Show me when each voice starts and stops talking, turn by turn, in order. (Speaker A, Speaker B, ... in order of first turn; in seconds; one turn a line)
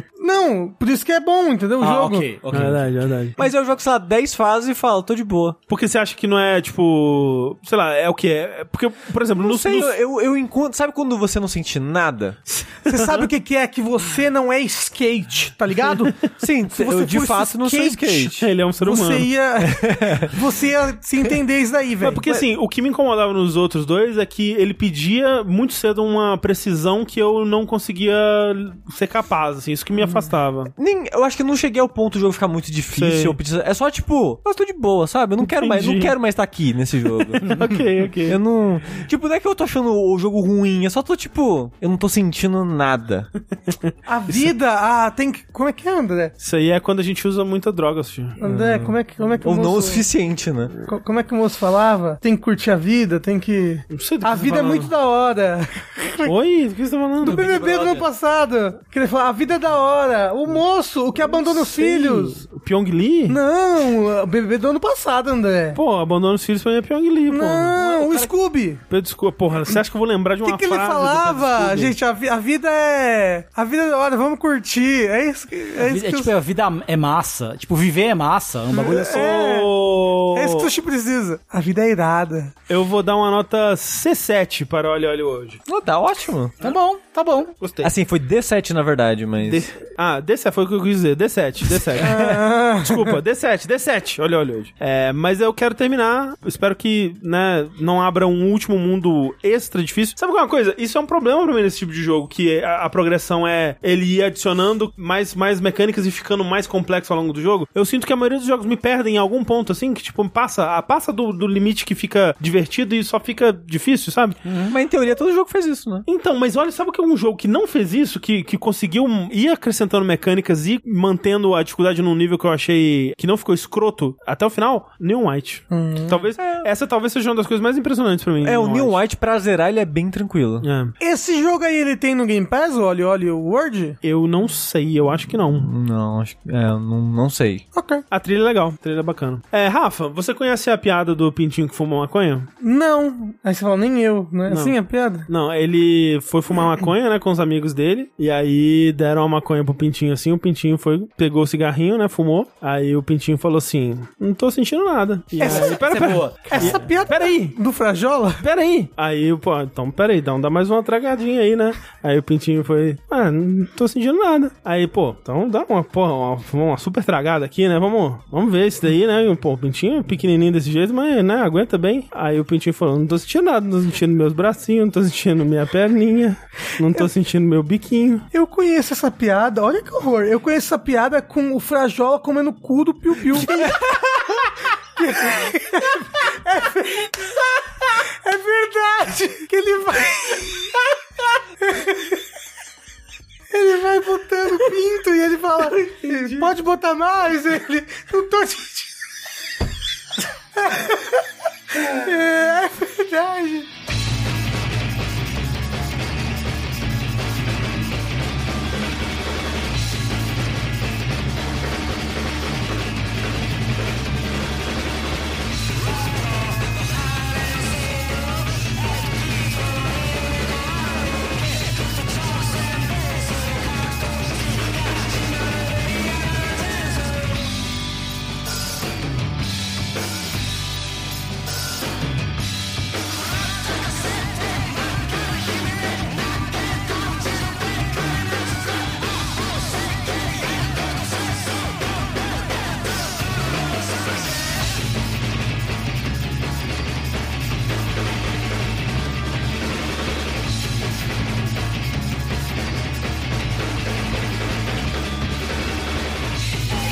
Speaker A: 0.2-2.3
Speaker B: 1.8-3.0
Speaker C: 2.5-3.4
Speaker D: 3.4-5.6
Speaker C: 5.7-10.0
Speaker D: 9.4-12.4
Speaker C: 12.5-13.3
Speaker A: 12.9-22.2
Speaker D: 16.3-18.4
Speaker C: 18.4-19.3
Speaker D: 19.6-20.4
Speaker C: 22.0-30.7
Speaker D: 30.8-37.6
Speaker C: 32.9-33.4
Speaker C: 35.4-36.1
Speaker C: 37.4-38.4
Speaker D: 38.2-43.3
Speaker A: 44.1-46.3
Speaker C: 46.4-49.0
Speaker A: 48.4-50.1
Speaker D: 49.4-50.7
Speaker A: 50.9-56.3
Speaker C: 53.9-54.9
Speaker C: 56.2-57.5
Speaker A: 57.2-62.4
Speaker D: 57.3-58.0
Speaker B: 57.5-58.0
Speaker C: 61.2-63.4
Speaker A: 63.3-65.8
Speaker C: 65.8-67.8
Speaker A: 67.3-68.8
Speaker D: 67.8-68.3
Speaker B: 67.8-68.1
Speaker C: 68.9-72.0
Speaker A: 70.4-76.3
Speaker B: 75.8-79.2
Speaker A: 78.7-79.7
Speaker C: 79.0-80.7
Speaker A: 80.3-82.5
Speaker C: 82.7-85.6
Speaker D: 85.7-86.5
Speaker B: 86.6-87.5
Speaker C: 87.6-87.9
Speaker D: 87.8-89.7
Speaker C: 89.5-114.4
Speaker D: 91.8-92.2
Speaker A: 92.0-93.2
Speaker B: 114.4-114.8
Speaker D: 114.7-116.1
Speaker C: 116.1-129.0
Speaker A: 125.7-126.2
Speaker D: 126.4-126.7
Speaker D: 128.4-130.7
Speaker C: 130.6-130.9
Speaker A: 131.0-134.0
Speaker C: 134.0-135.7
Speaker D: 135.6-137.6
Speaker A: 137.7-138.0
Speaker C: 138.1-142.5
Speaker A: 142.6-145.3
Speaker C: 144.5-144.8
Speaker C: 145.3-157.6
Speaker A: 155.4-158.4
Speaker B: 155.4-156.8
Speaker C: 158.4-178.3
Speaker A: 178.3-190.8
Speaker A: 191.6-192.2
Speaker A: 193.5-198.9
Speaker A: 200.6-203.7